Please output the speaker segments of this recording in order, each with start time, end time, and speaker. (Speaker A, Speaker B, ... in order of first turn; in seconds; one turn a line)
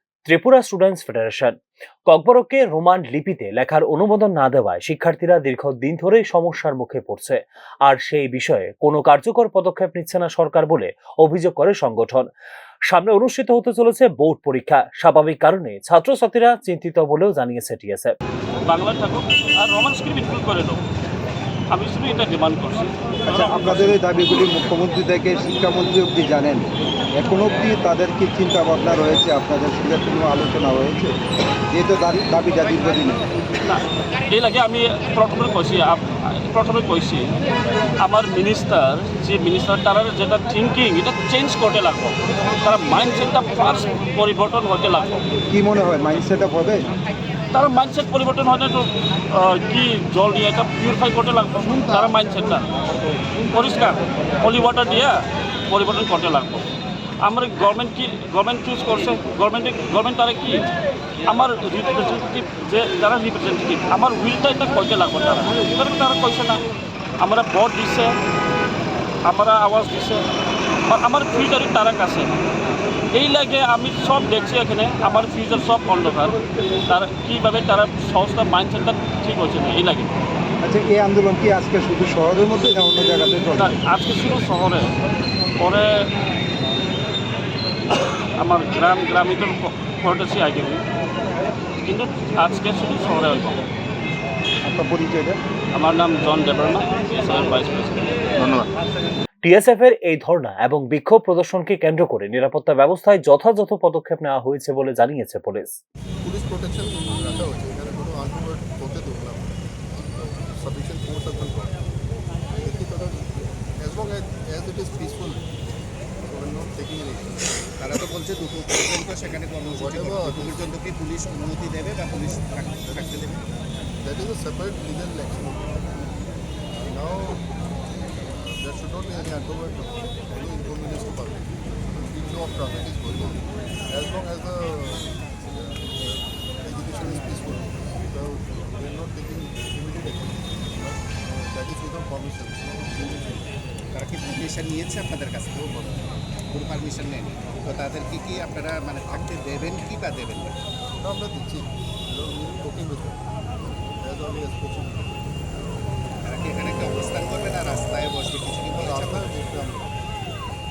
Speaker A: 0.3-1.6
Speaker A: 2.1-12.3
Speaker A: 12.9-18.1
Speaker B: 18.7-20.8
Speaker B: 21.7-23.9
Speaker C: 23.3-31.1
Speaker C: 31.7-33.2
Speaker B: 33.6-37.3
Speaker B: 38.0-45.2
Speaker C: 45.5-46.9
Speaker B: 47.5-52.7
Speaker B: 53.5-56.7
Speaker B: 57.2-60.7
Speaker B: 61.2-66.6
Speaker B: 67.2-68.2
Speaker B: 69.3-70.2
Speaker B: 70.8-72.3
Speaker B: 73.1-80.1
Speaker C: 80.6-83.8
Speaker B: 83.6-84.9
Speaker B: 85.6-85.9
Speaker B: 88.0-90.8
Speaker B: 91.8-93.6
Speaker C: 94.7-95.4
Speaker B: 95.7-98.2
Speaker A: 99.4-105.7
Speaker D: 106.2-109.5
Speaker D: 110.2-111.8
Speaker D: 112.5-113.2
Speaker D: 113.8-115.4
Speaker D: 116.3-117.7
Speaker E: 117.8-123.4
Speaker D: 119.7-120.7
Speaker D: 124.0-126.1
Speaker D: 126.8-127.5
Speaker D: 128.3-143.4
Speaker E: 143.9-145.7
Speaker D: 145.6-146.1
Speaker E: 146.5-150.6
Speaker D: 151.0-155.2
Speaker E: 156.2-159.4
Speaker D: 158.8-159.9